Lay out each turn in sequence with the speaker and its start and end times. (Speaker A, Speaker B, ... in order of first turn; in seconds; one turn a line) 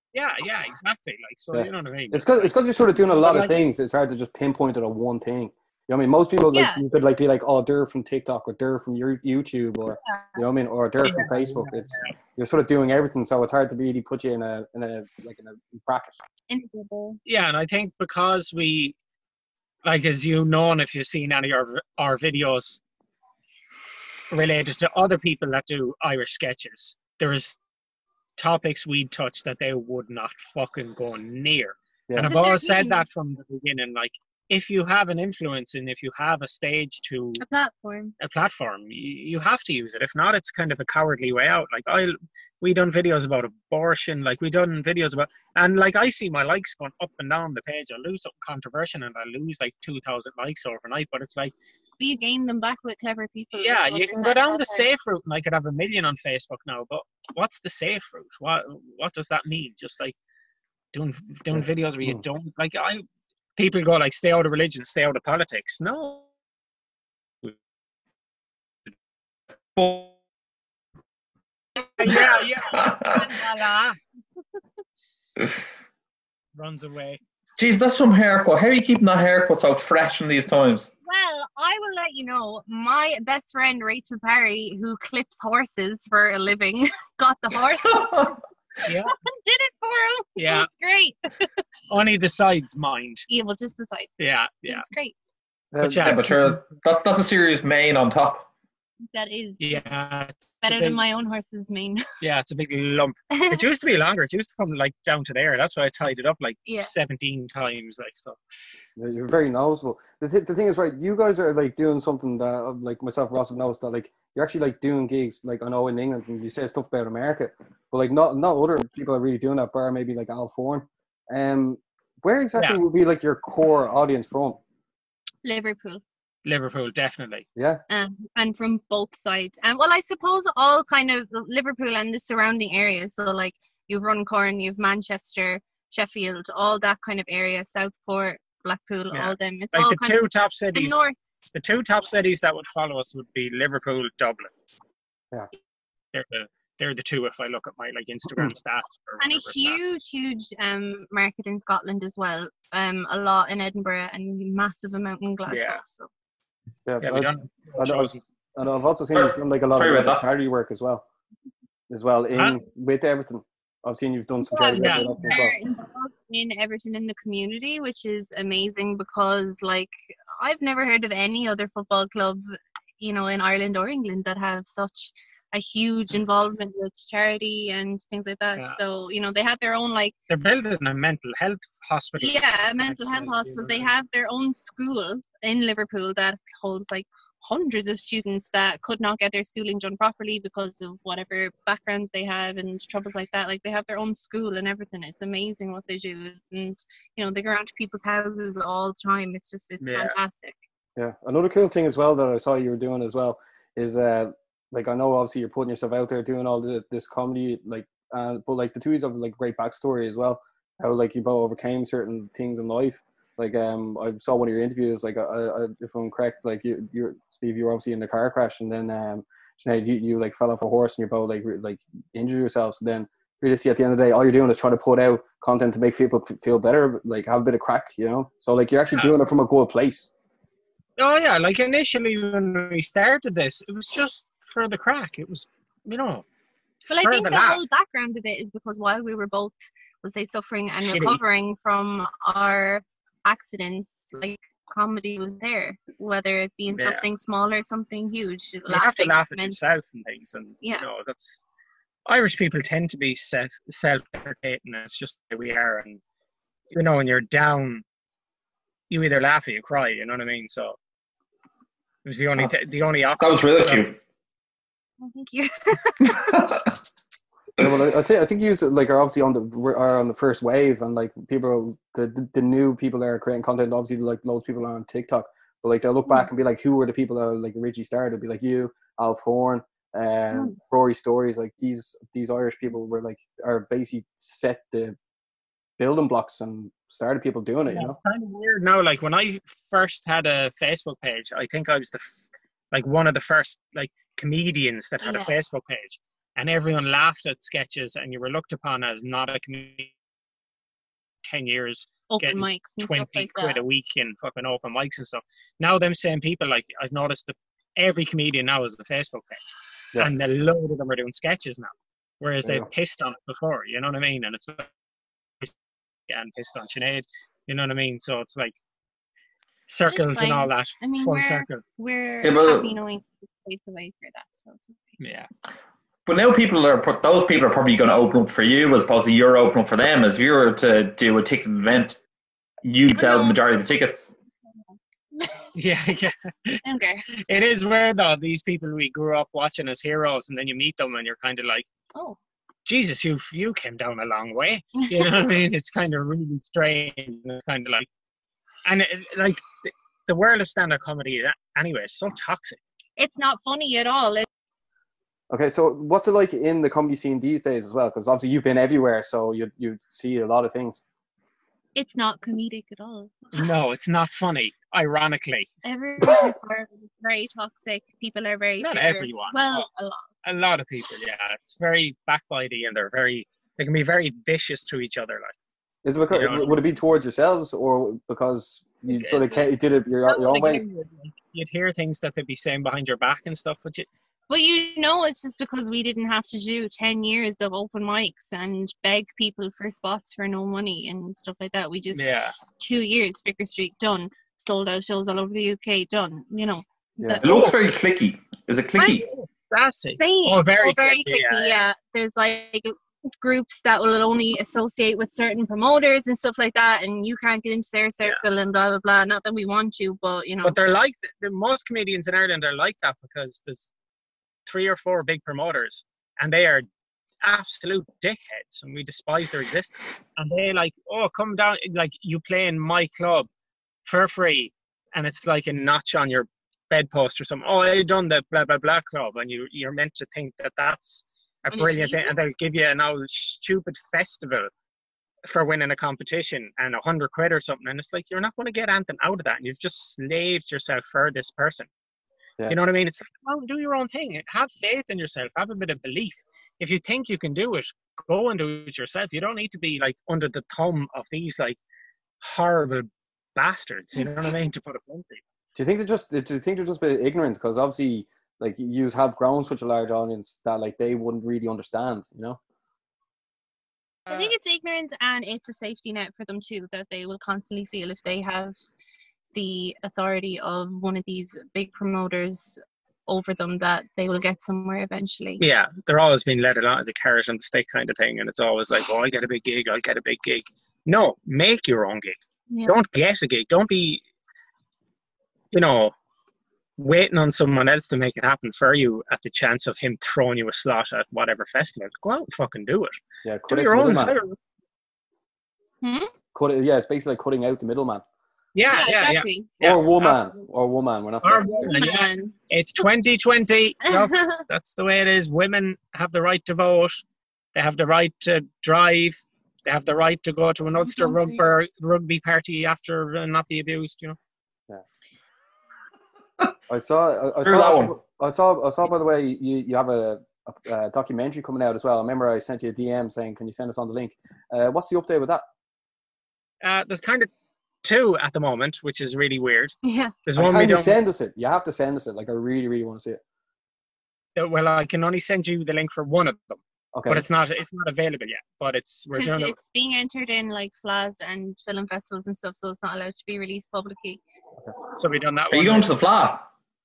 Speaker A: 0.1-2.5
Speaker B: 1.5-16.1
Speaker A: 3.1-3.6
Speaker C: 6.5-6.8
Speaker C: 10.0-10.4
Speaker A: 11.0-12.1
Speaker C: 16.5-17.2
Speaker A: 17.2-18.9
Speaker A: 19.8-22.8
Speaker A: 24.3-27.6
Speaker A: 28.4-37.4
Speaker C: 32.2-33.0
Speaker C: 37.4-38.1
Speaker A: 38.2-51.5
Speaker C: 52.0-54.9
Speaker A: 53.5-60.1
Speaker A: 60.9-63.0
Speaker B: 61.5-62.2
Speaker A: 63.6-66.3
Speaker D: 69.8-70.1
Speaker A: 71.8-74.0
Speaker D: 72.0-73.3
Speaker A: 76.5-77.2
Speaker D: 77.6-80.9
Speaker C: 81.0-88.3
Speaker D: 87.9-88.3
Speaker A: 88.8-89.1
Speaker C: 89.2-91.5
Speaker A: 90.4-90.7
Speaker A: 91.9-93.2
Speaker C: 93.3-94.1
Speaker A: 94.2-94.8
Speaker C: 94.7-95.1
Speaker B: 95.7-96.3
Speaker A: 95.8-96.6
Speaker D: 96.0-98.5
Speaker C: 99.1-99.8
Speaker A: 99.6-101.0
Speaker C: 100.6-102.0
Speaker A: 102.2-108.4
Speaker C: 103.3-103.7
Speaker C: 106.7-106.9
Speaker B: 109.0-124.6
Speaker C: 125.4-126.0
Speaker A: 126.4-127.5
Speaker B: 127.5-127.8
Speaker C: 127.9-141.2
Speaker A: 139.1-141.0
Speaker A: 141.5-144.5
Speaker A: 146.1-149.8
Speaker C: 149.2-156.1
Speaker A: 155.5-155.8
Speaker B: 156.8-161.0
Speaker A: 157.0-158.2
Speaker D: 159.1-160.2
Speaker B: 161.9-165.6
Speaker C: 164.4-172.4
Speaker A: 164.7-165.4
Speaker C: 173.0-180.1
Speaker A: 180.3-183.9
Speaker C: 182.2-200.6
Speaker A: 199.8-200.2
Speaker B: 201.0-230.1
Speaker A: 231.0-236.2
Speaker C: 236.9-249.8
Speaker A: 236.9-237.7
Speaker A: 240.8-241.2
Speaker A: 246.7-247.0
Speaker A: 248.7-251.4
Speaker A: 252.1-256.0
Speaker A: 256.7-257.8
Speaker A: 258.9-260.8
Speaker A: 262.0-263.9
Speaker D: 263.2-264.0
Speaker C: 265.0-266.4
Speaker D: 266.0-266.7
Speaker B: 267.6-285.0
Speaker B: 285.8-288.0
Speaker A: 287.7-299.9
Speaker C: 295.0-295.3
Speaker A: 301.2-309.4
Speaker C: 302.1-303.6
Speaker A: 309.9-314.7
Speaker A: 316.1-318.6
Speaker A: 319.7-321.6
Speaker C: 319.9-325.0
Speaker D: 322.2-322.8
Speaker A: 325.0-325.3
Speaker D: 326.1-332.0
Speaker D: 332.6-334.1
Speaker C: 332.9-333.4
Speaker C: 335.1-335.5
Speaker A: 335.5-341.6
Speaker C: 336.6-337.1
Speaker A: 342.6-347.9
Speaker C: 344.8-345.2
Speaker A: 348.6-352.6
Speaker C: 353.0-354.2
Speaker B: 355.3-360.8
Speaker C: 361.8-363.5
Speaker A: 363.3-365.5
Speaker C: 365.6-370.1
Speaker A: 368.6-369.7
Speaker A: 370.2-375.3
Speaker B: 375.8-380.6
Speaker A: 376.1-376.6
Speaker A: 378.9-379.5
Speaker A: 380.0-383.9
Speaker C: 384.3-397.3
Speaker A: 391.9-392.3
Speaker D: 397.2-399.1
Speaker A: 397.2-397.5
Speaker A: 398.8-401.6
Speaker C: 400.0-410.6
Speaker A: 410.4-413.7
Speaker A: 414.4-416.6
Speaker A: 417.2-423.3
Speaker A: 423.8-434.5
Speaker C: 431.5-432.1
Speaker A: 435.2-441.7
Speaker A: 442.5-451.6
Speaker A: 452.2-455.2
Speaker B: 455.5-462.4
Speaker A: 464.1-464.3
Speaker C: 464.1-468.5
Speaker C: 469.3-475.4
Speaker A: 475.4-484.0
Speaker C: 482.5-482.8
Speaker A: 485.5-485.9
Speaker A: 486.8-492.9
Speaker B: 493.2-494.2
Speaker A: 493.5-494.4
Speaker C: 495.8-496.1
Speaker B: 496.3-498.0
Speaker A: 498.5-500.2
Speaker C: 498.7-499.5
Speaker B: 499.6-501.7
Speaker A: 501.2-507.0
Speaker C: 501.3-502.3
Speaker C: 503.9-504.4
Speaker A: 507.5-514.2
Speaker C: 510.9-511.3
Speaker B: 516.7-525.4
Speaker D: 517.4-517.9
Speaker A: 526.6-527.3
Speaker A: 527.8-531.0
Speaker C: 529.8-530.1
Speaker B: 530.4-533.2
Speaker A: 534.4-539.5
Speaker B: 536.9-537.2
Speaker C: 539.1-544.2
Speaker A: 544.9-545.9
Speaker D: 545.5-546.5